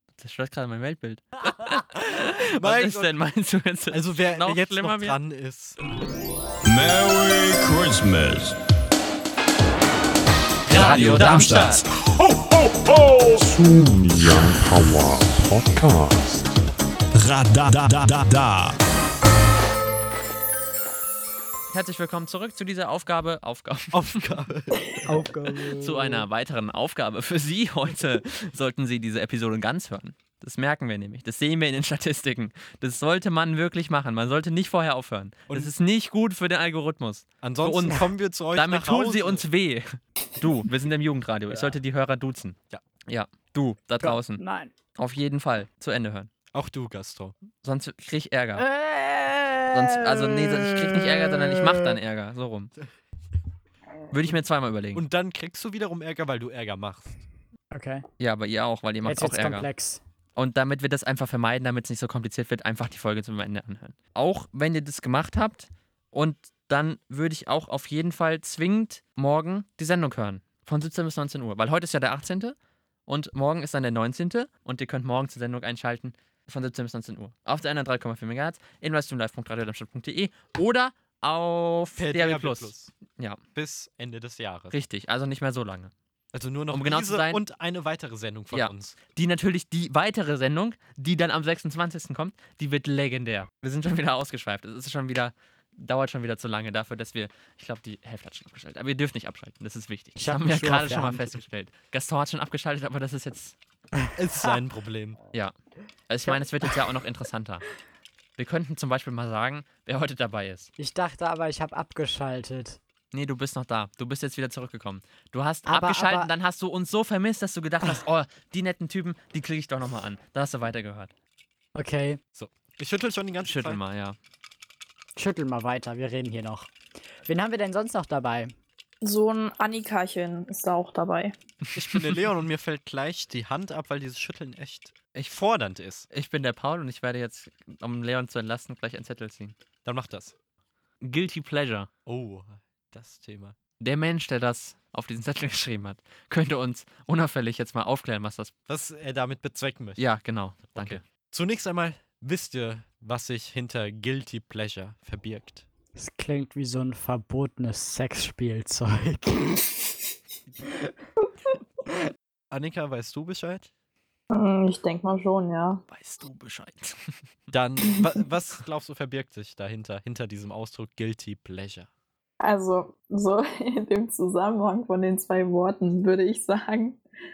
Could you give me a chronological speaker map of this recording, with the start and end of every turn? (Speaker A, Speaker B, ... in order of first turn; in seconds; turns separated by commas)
Speaker A: 0.2-5.2, Speaker B: 2.6-3.1, Speaker B: 3.9-5.8, Speaker C: 6.7-8.6, Speaker A: 10.7-11.8, Speaker C: 10.7-11.8, Speaker B: 10.8-11.8, Speaker C: 12.6-16.2, Speaker C: 17.1-18.8, Speaker A: 21.7-24.2, Speaker B: 23.9-25.1, Speaker D: 25.1-26.3, Speaker A: 25.8-44.4, Speaker B: 37.4-39.5, Speaker D: 44.0-44.7, Speaker A: 45.0-46.3, Speaker B: 46.5-47.4, Speaker A: 47.6-48.7, Speaker D: 48.6-51.9, Speaker A: 49.7-52.7, Speaker A: 54.1-55.0, Speaker B: 55.0-57.2, Speaker D: 57.7-58.1, Speaker A: 58.2-59.7, Speaker D: 59.0-60.0, Speaker A: 60.4-72.5, Speaker A: 73.1-83.4, Speaker B: 82.0-82.9, Speaker B: 83.6-84.8, Speaker A: 84.7-85.9, Speaker B: 86.3-89.0, Speaker A: 86.7-87.4, Speaker A: 88.5-103.6, Speaker D: 100.2-101.4, Speaker D: 104.0-104.6, Speaker B: 104.2-105.2, Speaker A: 106.1-107.7, Speaker D: 106.2-106.8, Speaker A: 108.4-110.7, Speaker D: 110.8-112.8, Speaker A: 113.1-121.1, Speaker D: 115.7-116.3, Speaker D: 121.8-122.2, Speaker B: 122.3-123.8, Speaker A: 123.4-124.2, Speaker D: 125.2-126.7, Speaker D: 127.2-128.5, Speaker E: 129.0-131.3, Speaker B: 131.8-136.1, Speaker A: 131.9-132.2, Speaker A: 136.1-139.6, Speaker B: 139.8-140.3, Speaker A: 141.0-141.9, Speaker B: 142.1-143.6, Speaker A: 143.8-148.5, Speaker B: 148.7-150.1, Speaker A: 150.0-151.0, Speaker B: 150.7-155.7, Speaker D: 156.0-159.6, Speaker B: 162.5-163.7, Speaker E: 164.3-165.8, Speaker A: 165.9-167.0, Speaker B: 167.5-171.9, Speaker E: 167.8-168.1, Speaker E: 172.4-177.0